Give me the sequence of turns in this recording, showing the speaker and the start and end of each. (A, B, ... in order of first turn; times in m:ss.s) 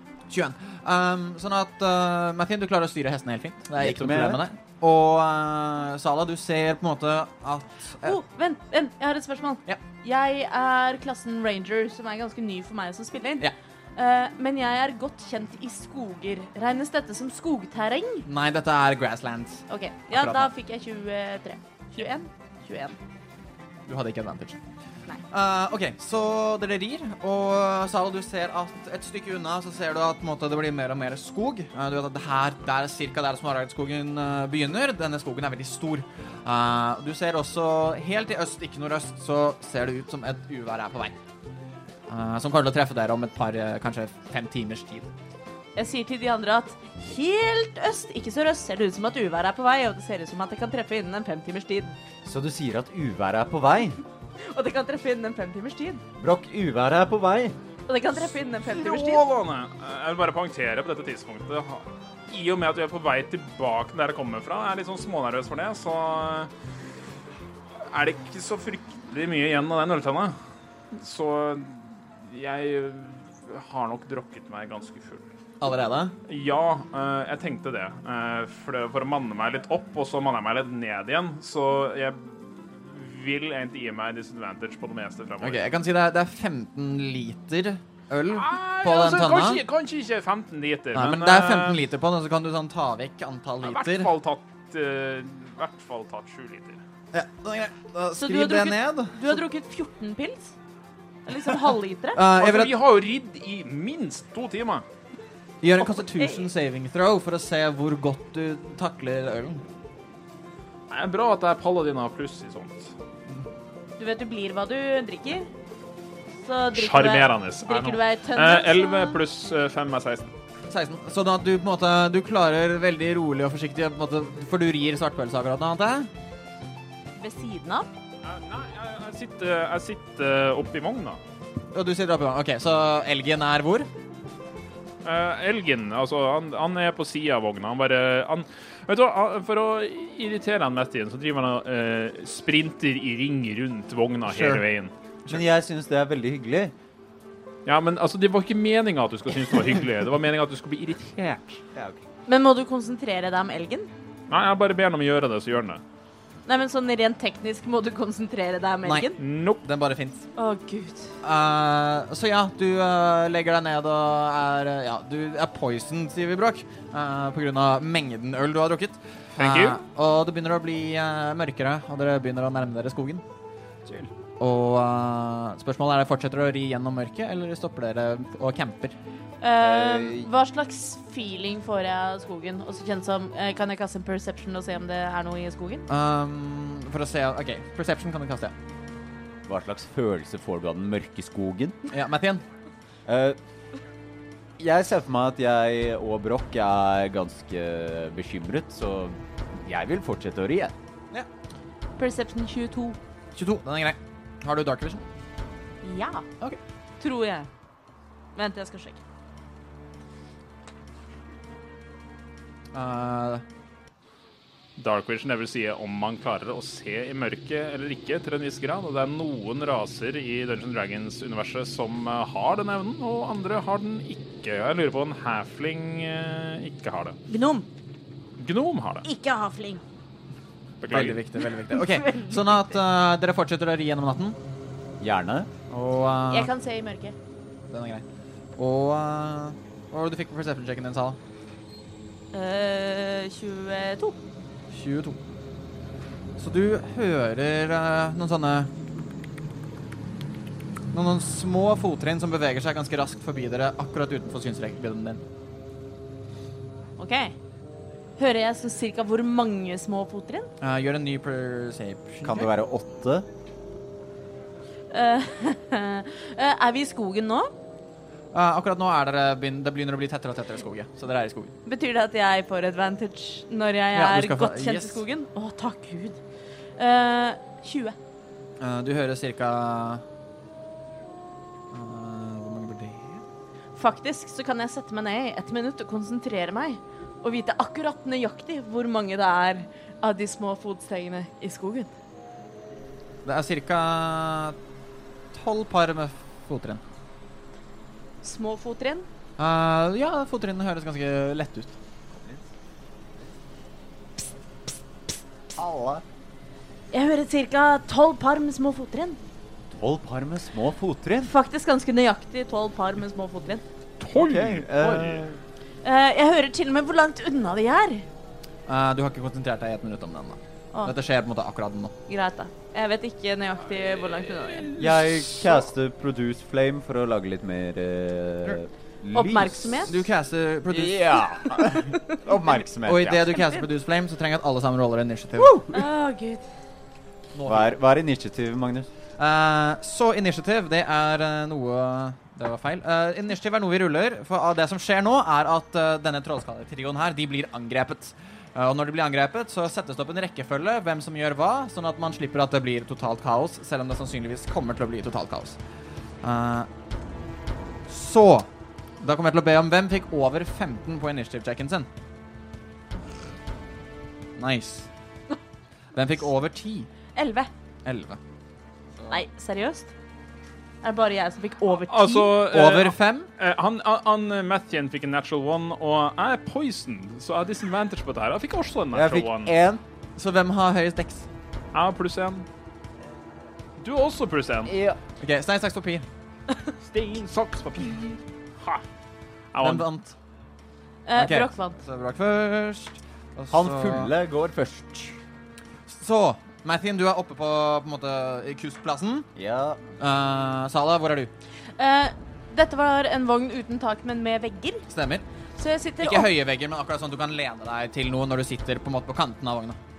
0:00.3-0:08.2 A
0:03.8-0:04.4 B
0:08.0-0:18.3 C
0:18.3-0:20.5 A
0:19.7-0:23.0 C
0:23.9-0:24.6 A
0:25.3-0:41.2 A
0:42.1-0:45.1 A
0:45.8-0:51.9 C
0:52.2-0:54.0 B
0:54.4-0:56.0 C
0:56.2-0:57.6 B
0:57.9-0:59.2 C
0:58.6-1:06.5 D
1:07.9-1:10.4 D
1:10.9-1:15.2 D
1:15.6-1:16.2 A
1:16.3-1:25.6 D
1:25.4-1:29.6 A
1:28.3-1:31.8 D
1:30.9-1:34.1 A
1:33.6-1:36.8 D
1:37.1-1:39.4 A
1:38.2-1:40.5 C
1:41.3-1:42.2 C
1:42.1-1:42.8 A
1:42.3-1:44.8 D
1:45.6-1:49.6 A
1:45.9-1:46.5 C
1:50.9-1:52.9 D
1:54.0-1:55.5 C
1:56.4-1:59.2 C
1:56.7-2:00.3 D
2:00.7-2:06.1 A
2:07.2-2:07.9 C
2:08.2-2:11.2 D
2:11.7-2:13.9 A
2:15.0-2:24.9 D
2:24.3-2:24.6 A
2:25.3-2:26.7 B
2:27.7-2:31.6 D
2:31.8-2:32.0 B
2:32.3-2:33.9 C
2:34.3-2:35.8 D
2:36.5-2:39.2 C
2:38.8-2:40.3 A
2:39.2-2:39.6 D
2:40.4-2:41.1 C
2:41.2-2:53.2 A
2:49.4-2:49.8 D
2:54.4-2:59.0 A
2:59.4-3:05.9 C
2:59.6-3:00.3 B
3:05.9-3:08.5 A
3:09.5-3:11.8 B
3:11.9-3:12.4 A
3:13.1-3:13.4 B
3:14.6-3:20.8 B
3:22.0-3:23.0 C
3:23.4-3:25.0 A
3:25.8-3:26.3 C
3:27.0-3:27.5 C
3:28.4-3:29.0 C
3:32.7-3:33.4 A
3:34.8-3:47.2 D
3:47.3-3:47.7 C
3:48.4-3:49.0 D
3:49.0-3:49.8 C
3:50.8-3:51.2 D
3:50.9-3:54.4 A
3:51.7-3:52.4 C
3:55.0-3:55.5 B
3:55.7-3:56.5 A
3:56.3-3:57.2 C
3:57.7-3:58.0 A
3:58.6-4:01.2 A
4:02.3-4:04.2 C
4:04.7-4:05.2 A
4:06.4-4:08.7 A
4:10.9-4:15.2 A
4:17.0-4:17.4 C
4:18.2-4:20.5 C
4:20.6-4:22.5 A
4:22.2-4:23.3 B
4:24.9-4:27.5 C
4:28.3-4:31.5 A
4:31.6-4:36.2 C
4:33.9-4:35.0 A
4:36.8-4:38.0 C
4:38.6-4:40.0 A
4:41.7-4:43.2 A
4:43.8-4:51.9 C
4:53.2-4:54.6 A
4:55.3-4:56.8 A
4:58.2-4:59.1 C
4:59.4-5:01.8 A
5:02.1-5:02.4 B
5:05.6-5:06.0 B
5:06.9-5:09.2 C
5:09.7-5:11.3 B
5:11.2-5:13.6 C
5:14.0-5:15.3 D
5:14.2-5:15.4 B
5:15.8-5:18.1 C
5:18.7-5:21.9 A
5:22.1-5:24.8 C
5:24.1-5:25.6 D
5:24.8-5:30.0 B
5:29.1-5:30.0 C
5:29.9-5:31.2 A
5:30.7-5:33.3 B
5:31.7-5:32.2 C
5:32.8-5:35.9 A
5:33.3-5:33.7 C
5:35.7-5:36.5 C
5:37.3-5:37.8 A
5:37.5-5:38.9 B
5:39.2-5:55.6 A
5:56.2-5:56.7 A
5:57.9-5:58.5 A
5:59.0-6:01.9 A
6:04.4-6:04.9 A
6:05.9-6:06.9 A
6:07.2-6:07.5 C
6:07.8-6:08.2 A
6:09.1-6:09.9 C
6:10.8-6:12.4 C
6:11.8-6:19.5 D
6:12.4-6:13.3 A
6:18.9-6:19.8 B
6:20.2-6:21.3 A
6:21.7-6:22.5 D
6:23.8-6:24.7 D
6:24.6-6:25.0 B
6:25.2-6:26.1 A
6:26.8-6:28.8 D
6:29.5-6:29.9 D
6:29.6-6:30.2 A
6:31.1-6:31.8 C
6:31.2-6:34.1 A
6:33.5-6:35.2 B
6:35.9-6:39.3 A
6:39.4-6:39.8 B
6:40.0-6:41.3 A
6:41.8-6:44.9 C
6:44.9-6:45.2 A
6:45.6-6:46.3 C
6:46.0-6:49.8 A